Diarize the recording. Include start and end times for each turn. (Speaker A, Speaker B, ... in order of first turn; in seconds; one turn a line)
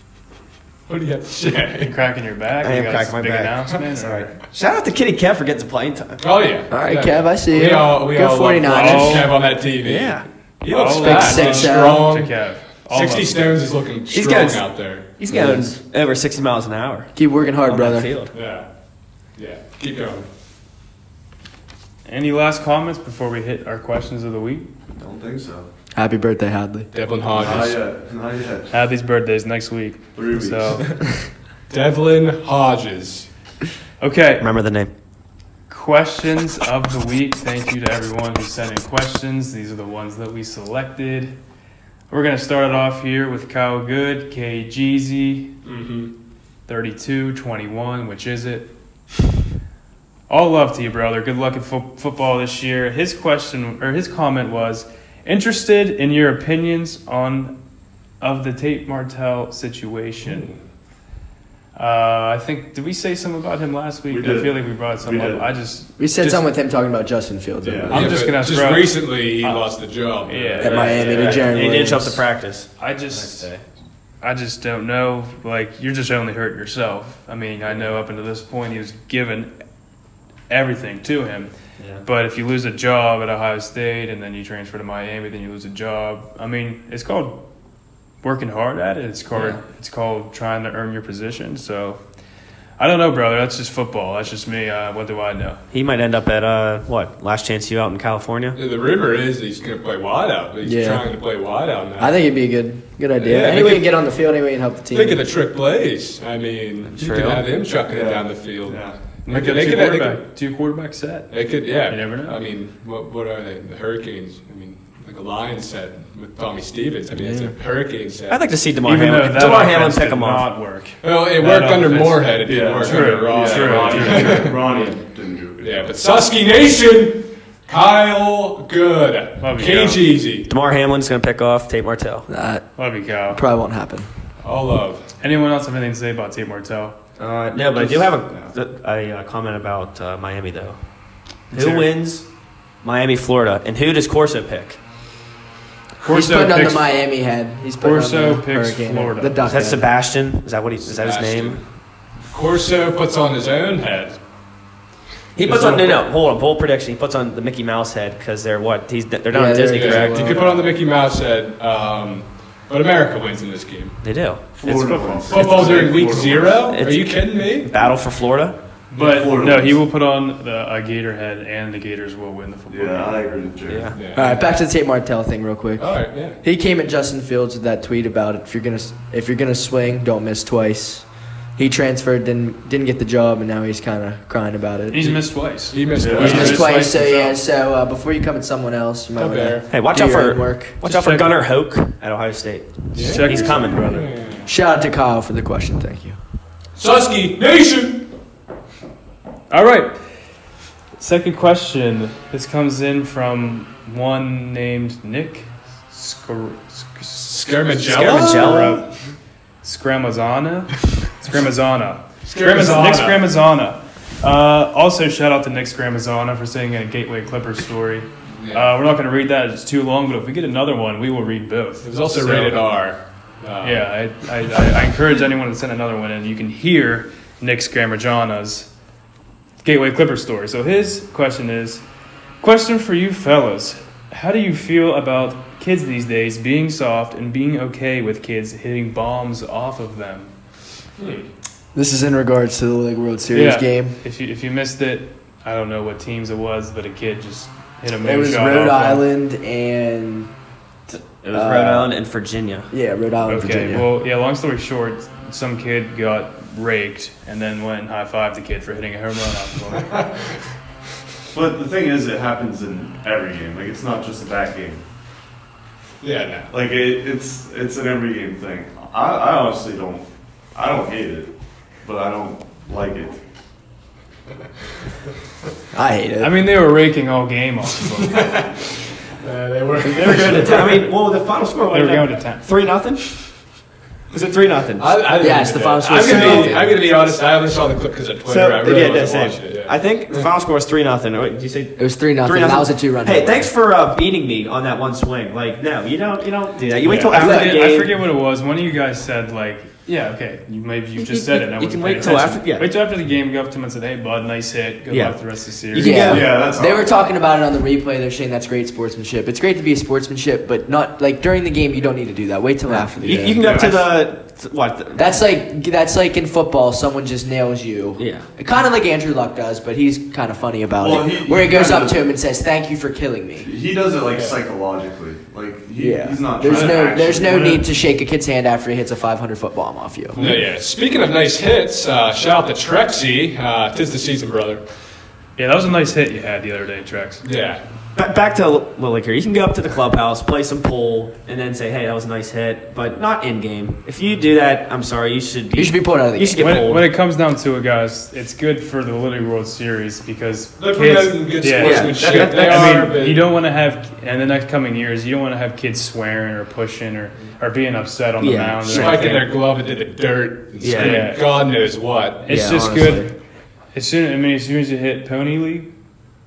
Speaker A: 0.9-1.9
Speaker B: 1.8-4.4
Speaker C: 2.6-6.2
Speaker A: 6.2-15.1
Speaker D: 6.7-9.3
Speaker B: 8.7-9.3
Speaker C: 9.8-10.2
Speaker B: 10.7-13.5
Speaker D: 10.9-12.1
Speaker C: 14.1-17.1
Speaker D: 15.3-15.7
Speaker D: 17.1-18.1
Speaker C: 17.6-18.3
Speaker A: 18.3-18.7
Speaker A: 19.3-20.2
Speaker B: 22.1-24.7
Speaker E: 25.0-25.7
Speaker D: 25.9-26.9
Speaker A: 26.9-27.8
Speaker E: 27.3-28.8
Speaker B: 28.7-30.9
Speaker E: 30.1-30.9
Speaker A: 31.7-33.3
Speaker B: 34.0-34.5
Speaker C: 34.4-34.9
Speaker B: 35.7-41.3
Speaker B: 42.1-45.5
Speaker A: 45.6-46.1
Speaker B: 46.7-48.7
Speaker B: 50.3-57.5
Speaker B: 58.2-60.5
Speaker A: 60.2-60.5
Speaker B: 61.8-66.4
Speaker E: 64.1-65.5
Speaker D: 66.0-68.1
Speaker E: 67.6-68.0
Speaker B: 67.9-69.7
Speaker A: 67.9-71.5
Speaker B: 70.2-71.4
Speaker D: 70.6-72.2
Speaker C: 70.9-73.6
Speaker B: 72.8-73.5
Speaker B: 74.2-79.5
Speaker B: 80.5-81.5
Speaker C: 81.8-82.0
Speaker B: 82.0-87.4
Speaker B: 88.2-92.0
Speaker B: 92.8-95.6
Speaker C: 95.7-98.6
Speaker A: 98.5-102.2
Speaker D: 100.6-101.1
Speaker D: 102.0-105.2
Speaker A: 103.2-104.0
Speaker A: 104.9-110.2
Speaker C: 106.9-107.4
Speaker E: 107.9-109.0
Speaker B: 109.2-112.4
Speaker A: 111.3-118.5
Speaker D: 117.2-117.5
Speaker C: 118.3-120.5
Speaker B: 118.8-124.6
Speaker A: 121.0-124.7
Speaker E: 122.4-126.0
Speaker A: 125.6-130.5
Speaker B: 129.4-130.0
Speaker C: 130.4-132.3
Speaker D: 132.3-132.7
Speaker B: 132.8-133.4
Speaker D: 133.3-134.1
Speaker A: 134.4-135.1
Speaker B: 135.2-136.9
Speaker C: 137.2-140.8
Speaker E: 137.8-138.5
Speaker C: 141.5-142.3
Speaker B: 141.5-141.8
Speaker C: 142.8-144.8
Speaker B: 146.0-146.9
Speaker D: 146.0-149.9
Speaker B: 147.8-149.4
Speaker C: 149.4-151.6
Speaker A: 150.8-151.6
Speaker A: 152.2-154.2
Speaker C: 155.3-160.5
Speaker A: 155.4-156.0
Speaker D: 159.3-160.6
Speaker A: 159.7-164.0
Speaker C: 164.0-165.9
Speaker E: 164.5-166.7
Speaker A: 165.3-167.7
Speaker C: 166.7-168.6
Speaker B: 168.9-173.3
Speaker A: 168.9-169.3
Speaker E: 169.0-169.8
Speaker E: 172.7-173.9
Speaker C: 173.7-174.0
Speaker A: 173.9-174.4
Speaker D: 174.1-185.2
Speaker A: 175.8-176.4
Speaker B: 184.9-187.4
Speaker A: 185.7-187.0
Speaker E: 186.0-186.6
Speaker D: 186.1-190.8
Speaker A: 189.1-189.7
Speaker C: 189.7-194.0
Speaker B: 190.8-191.4
Speaker A: 192.9-194.5
Speaker B: 192.9-194.1
Speaker D: 194.4-196.2
Speaker A: 196.8-198.1
Speaker B: 199.5-199.9
Speaker B: 201.0-208.8
Speaker A: 207.2-208.8
Speaker C: 207.9-208.8
Speaker B: 209.6-222.7
Speaker A: 212.2-213.2
Speaker A: 218.4-218.7
Speaker A: 221.8-223.8
Speaker B: 223.6-228.7
Speaker B: 229.6-231.8
Speaker B: 232.4-240.3
Speaker A: 241.0-241.2
Speaker D: 241.7-244.0
Speaker B: 243.3-249.1
Speaker D: 248.0-250.3
Speaker D: 250.9-251.9
Speaker C: 251.0-252.7
Speaker D: 252.7-253.9
Speaker B: 253.2-260.0
Speaker E: 261.3-264.8
Speaker A: 266.0-266.5
Speaker E: 266.5-271.3
Speaker E: 271.8-273.2
Speaker D: 275.7-276.5
Speaker B: 276.2-278.4
Speaker A: 278.0-280.9
Speaker C: 279.8-283.3
Speaker B: 280.0-280.5
Speaker B: 281.7-282.5
Speaker C: 284.1-285.1
Speaker A: 284.8-290.2
Speaker D: 285.2-286.8
Speaker C: 286.0-286.5
Speaker C: 288.2-297.9
Speaker D: 291.8-293.5
Speaker A: 296.8-297.2
Speaker B: 297.1-306.1
Speaker D: 297.1-297.6
Speaker C: 301.0-302.7
Speaker C: 304.9-306.4
Speaker D: 305.8-313.5
Speaker E: 306.0-306.9
Speaker C: 312.7-315.2
Speaker E: 313.4-313.8
Speaker D: 314.9-323.5
Speaker C: 318.0-318.3
Speaker E: 320.8-322.1
Speaker E: 323.4-327.6
Speaker A: 324.1-324.4
Speaker D: 325.8-330.2
Speaker B: 326.5-326.9
Speaker A: 330.1-334.6
Speaker B: 335.4-337.2
Speaker A: 337.2-337.6
Speaker C: 337.9-346.9
Speaker D: 345.5-346.6
Speaker B: 346.4-359.3
Speaker A: 350.6-353.2
Speaker C: 351.6-352.9
Speaker C: 358.2-359.1
Speaker A: 358.7-362.3
Speaker C: 360.6-361.2
Speaker B: 360.8-361.3
Speaker B: 362.2-363.1
Speaker C: 362.2-363.1
Speaker B: 363.7-365.7